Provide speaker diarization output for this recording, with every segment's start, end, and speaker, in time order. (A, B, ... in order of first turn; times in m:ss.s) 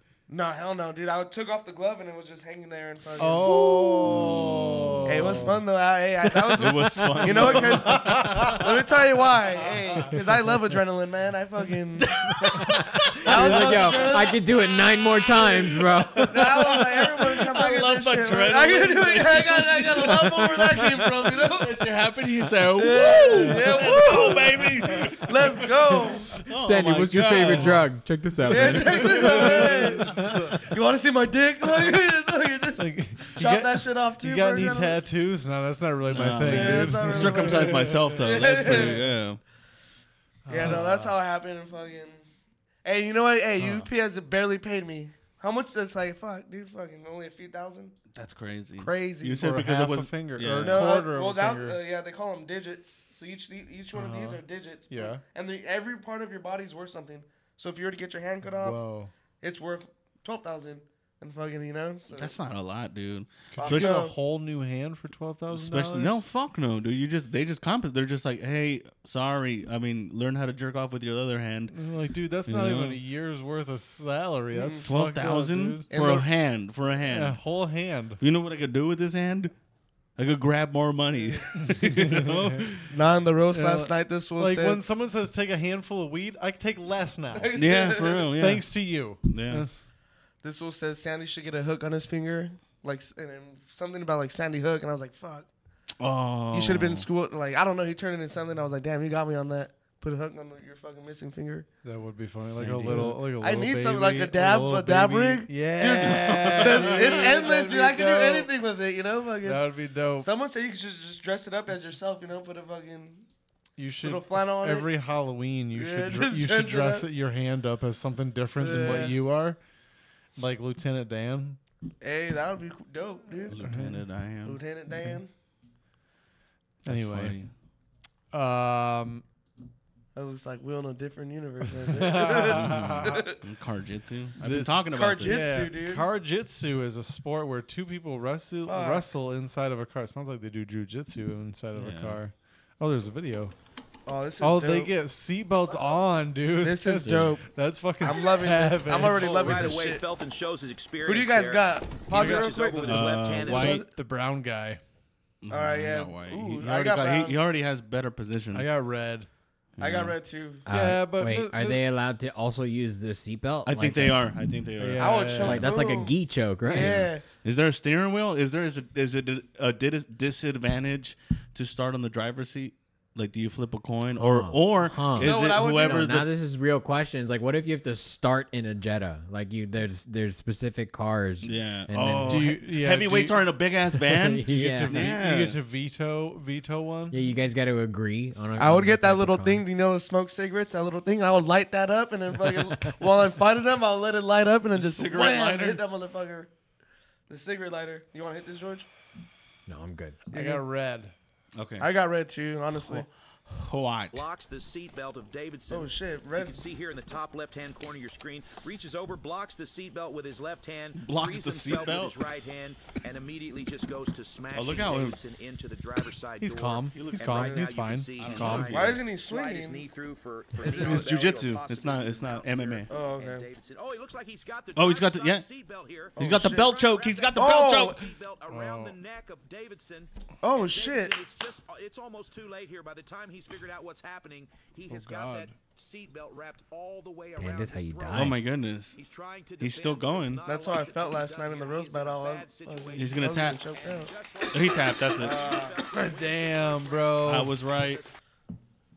0:00.3-0:04.2 A
0:03.2-0:05.6 B
0:04.0-0:05.0 C
0:05.0-0:14.4 A
0:06.5-0:08.7 C
0:07.2-0:08.6 B
0:12.1-0:14.1 C
0:12.4-0:16.8 D
0:15.1-0:25.7 C
0:16.3-0:21.9 A
0:22.7-0:26.4 A
0:26.3-0:27.8 C
0:26.4-0:29.6 D
0:28.4-0:35.0 A
0:28.5-0:30.5 B
0:28.7-0:30.1 C
0:32.8-0:37.9 B
0:36.1-0:39.4 C
0:36.4-0:39.0 A
0:40.4-0:41.1 B
0:40.5-0:42.2 A
0:42.8-0:47.9 A
0:43.6-0:43.8 B
0:48.1-0:50.9 C
0:48.8-0:49.4 A
0:49.3-0:51.8 B
0:50.5-0:58.8 A
0:53.9-0:55.2 B
0:58.6-0:59.1 B
0:59.4-1:02.4 A
1:02.1-1:04.0 C
1:03.5-1:06.2 B
1:03.6-1:04.1 A
1:05.5-1:11.7 C
1:11.7-1:15.9 B
1:12.5-1:13.0 C
1:14.5-1:14.8 A
1:14.8-1:17.4 C
1:15.9-1:16.3 A
1:17.1-1:18.2 B
1:18.2-1:19.5 C
1:20.2-1:22.9 C
1:21.2-1:21.4 A
1:21.6-1:22.6 B
1:22.9-1:24.8 A
1:23.5-1:27.5 B
1:27.3-1:28.3 A
1:27.5-1:28.7 C
1:28.4-1:29.8 B
1:29.2-1:29.6 C
1:30.4-1:35.5 A
1:36.0-1:37.1 C
1:36.5-1:41.7 A
1:41.8-1:48.5 B
1:42.5-1:43.2 C
1:42.8-1:53.2 A
1:46.0-1:47.5 C
1:49.4-1:50.3 B
1:53.8-1:59.6 B
1:54.0-1:54.9 A
1:55.7-1:57.1 A
1:58.6-1:59.2 A
2:00.4-2:01.6 B
2:02.0-2:03.6 A
2:03.5-2:04.6 C
2:03.5-2:04.0 B
2:04.4-2:05.3 A
2:06.8-2:07.4 B
2:06.8-2:07.5 C
2:08.3-2:09.2 B
2:10.1-2:13.4 A
2:11.9-2:13.2 B
2:12.5-2:15.4 C
2:14.4-2:23.5 B
2:14.9-2:16.1 A
2:18.6-2:19.1 A
2:21.7-2:22.2 C
2:24.0-2:24.9 A
2:24.4-2:29.2 B
2:26.6-2:27.4 A
2:28.0-2:30.0 A
2:29.0-2:33.8 E
2:31.0-2:33.9 A
2:32.1-2:32.5 B
2:32.8-2:33.8 C
2:33.4-2:34.8 B
2:35.4-2:38.7 C
2:35.5-2:37.4 A
2:38.5-2:39.3 B
2:39.8-2:40.2 C
2:39.8-2:40.6 A
2:40.6-2:44.3 D
2:40.7-2:41.8 B
2:43.6-2:45.6 C
2:44.8-2:45.7 B
2:45.0-2:47.2 A
2:45.4-2:47.1 D
2:47.4-2:56.3 C
2:54.1-3:02.6 D
2:55.2-2:56.1 A
3:01.4-3:05.6 C
3:02.3-3:03.4 B
3:03.9-3:05.0 D
3:04.5-3:07.2 B
3:07.1-3:09.6 D
3:08.6-3:16.5 A
3:12.4-3:13.1 D
3:14.7-3:15.8 C
3:17.3-3:18.9 A
3:19.7-3:20.2 D
3:20.3-3:20.6 A
3:20.3-3:21.1 B
3:21.5-3:21.9 C
3:21.8-3:23.1 A
3:22.9-3:24.2 C
3:24.1-3:58.4 E
3:25.7-3:26.7 A
3:31.0-3:32.2 C
3:34.5-3:35.2 C
3:36.4-3:38.9 B
3:36.9-3:37.6 C
3:38.2-3:39.0 C
3:38.6-3:39.9 A
3:40.6-3:41.4 A
3:40.6-3:42.9 C
3:42.9-3:43.5 A
3:44.7-3:45.4 C
3:46.2-3:46.7 A
3:46.2-3:48.0 C
3:47.3-3:48.0 A
3:48.5-3:49.0 B
3:50.4-3:51.2 A
3:54.9-3:55.5 B
3:57.4-3:58.4 D
3:58.1-3:59.0 C
3:58.9-4:08.1 E
3:59.6-4:00.4 C
4:00.4-4:04.1 A
4:03.0-4:03.6 C
4:04.5-4:05.4 C
4:05.2-4:05.8 A
4:05.9-4:07.6 B
4:07.2-4:08.1 C